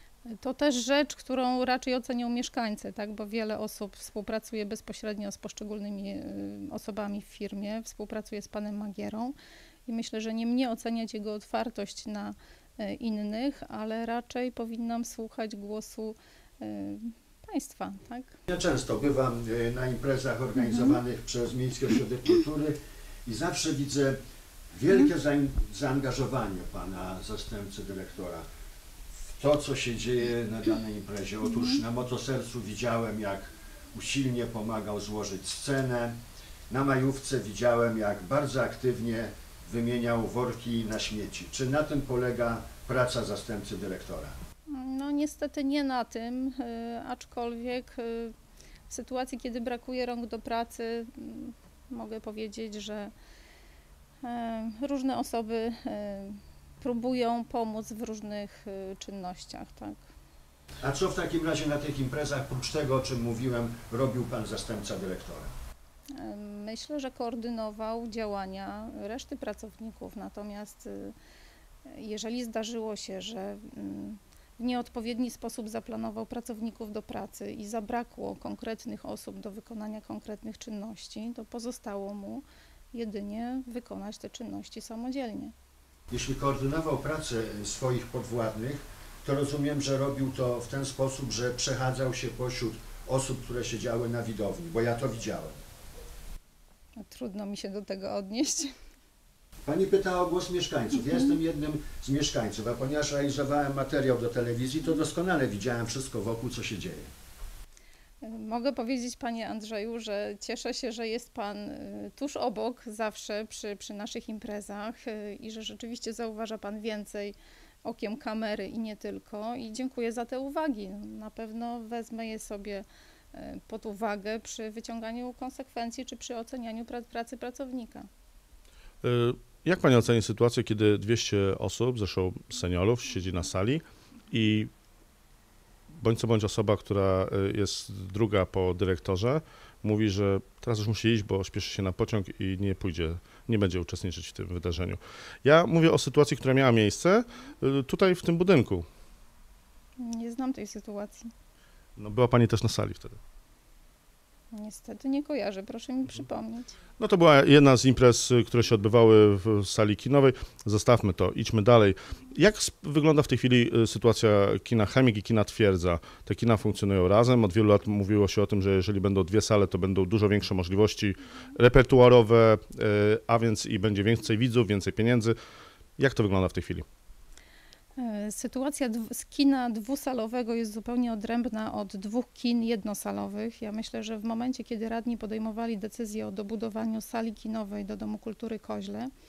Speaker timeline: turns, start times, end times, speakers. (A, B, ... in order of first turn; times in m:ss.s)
0:00.3-0:09.3 A
0:09.8-0:18.4 A
0:18.5-0:24.2 B
0:20.6-0:21.0 A
0:24.7-0:28.4 B
0:29.4-0:36.2 B
0:31.5-0:31.8 A
0:36.7-0:44.3 B
0:44.7-0:48.3 A
0:48.9-0:53.1 A
0:54.2-1:00.0 A
1:00.8-1:05.5 B
1:06.1-1:11.1 A
1:11.8-1:25.5 A
1:26.1-1:35.6 B
1:37.0-1:38.7 A
1:39.6-1:47.1 B
1:48.2-2:08.1 A
2:09.0-2:14.7 C
2:16.0-2:28.8 C
2:30.0-2:31.3 A
2:32.0-2:33.2 C
2:34.5-2:36.7 A
2:37.0-2:55.4 C
2:56.0-2:56.8 C
2:58.0-3:09.1 A